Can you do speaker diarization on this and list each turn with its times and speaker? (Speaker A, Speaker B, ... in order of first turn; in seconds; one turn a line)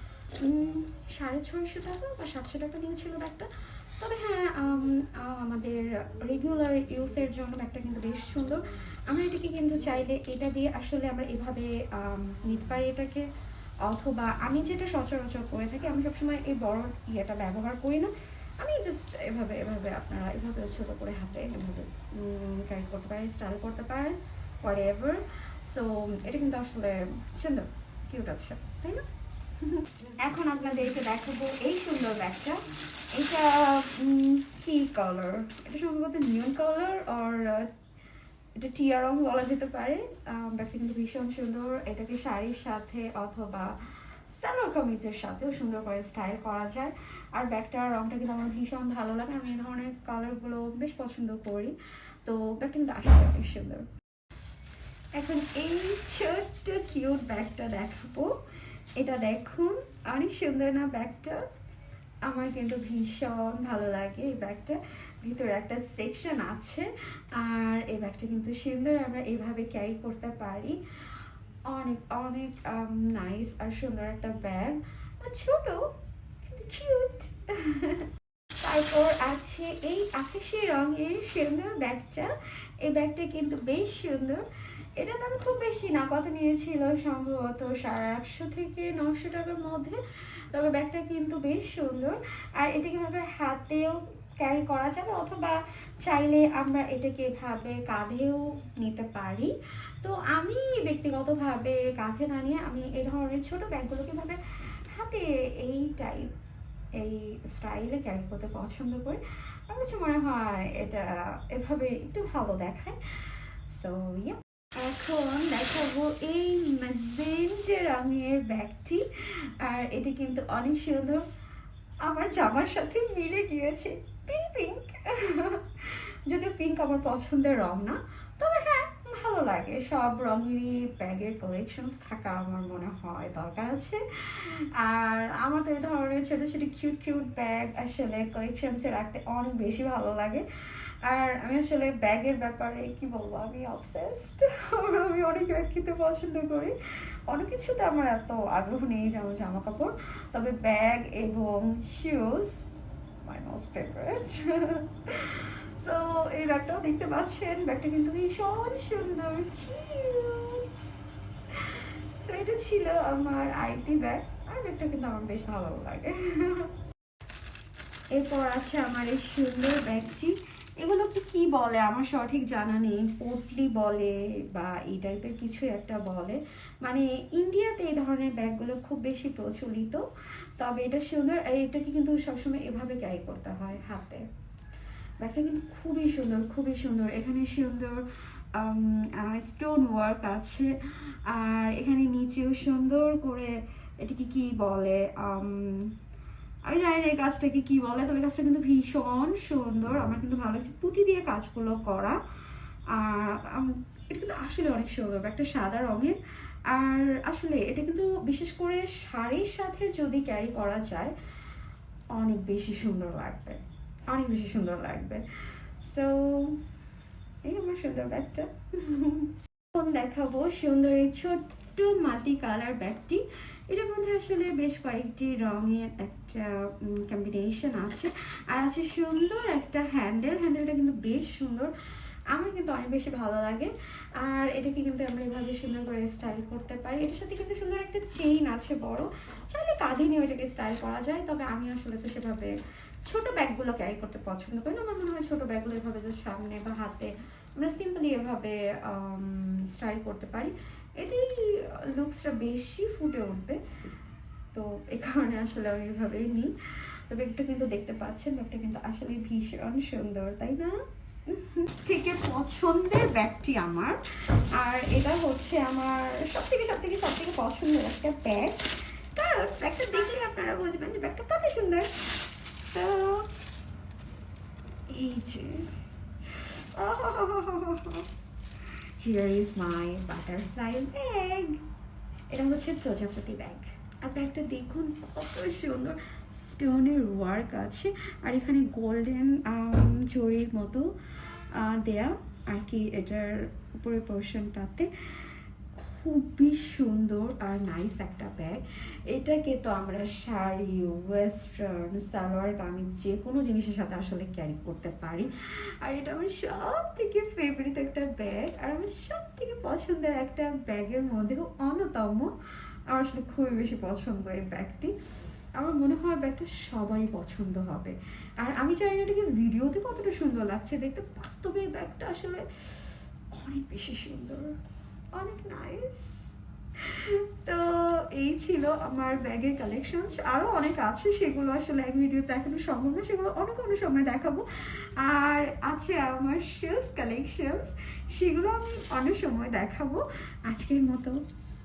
Speaker A: 0.4-13.2
Speaker A: 13.8-29.0
Speaker A: 29.6-32.6
Speaker A: 33.1-37.7
Speaker A: 38.6-43.7
Speaker A: 44.3-53.8
Speaker A: 55.2-58.3
Speaker A: 59.0-61.4
Speaker A: 62.3-70.8
Speaker A: 71.7-75.8
Speaker A: 76.4-78.0
Speaker A: 78.6-82.3
Speaker A: 82.8-84.4
Speaker A: 85.0-90.0
Speaker A: 90.5-99.5
Speaker A: 100.0-104.4
Speaker A: 104.9-106.3
Speaker A: 107.0-121.2
Speaker A: 122.1-140.4
Speaker A: 141.1-146.7
Speaker A: 147.3-152.6
Speaker A: 153.2-160.8
Speaker A: 161.5-166.7
Speaker A: 168.1-180.0
Speaker A: 180.6-184.2
Speaker A: 185.2-188.0
Speaker A: 188.6-190.7
Speaker A: 191.3-195.9
Speaker A: 196.7-202.2
Speaker A: 202.9-206.1
Speaker A: 206.7-211.1
Speaker A: 212.1-215.2
Speaker A: 215.8-216.6
Speaker A: 217.4-231.7
Speaker A: 232.3-242.5
Speaker A: 243.1-253.6
Speaker A: 254.5-256.5
Speaker A: 257.1-264.0
Speaker A: 264.6-271.9
Speaker A: 272.7-273.3
Speaker A: 274.9-275.7
Speaker A: 276.2-278.1
Speaker A: 279.0-281.6
Speaker A: 282.3-290.9
Speaker A: 291.5-305.3
Speaker A: 305.8-312.3
Speaker A: 312.9-314.9
Speaker A: 315.6-322.4
Speaker A: 323.3-324.5
Speaker A: 325.1-326.2
Speaker A: 326.8-334.4
Speaker A: 335.0-341.1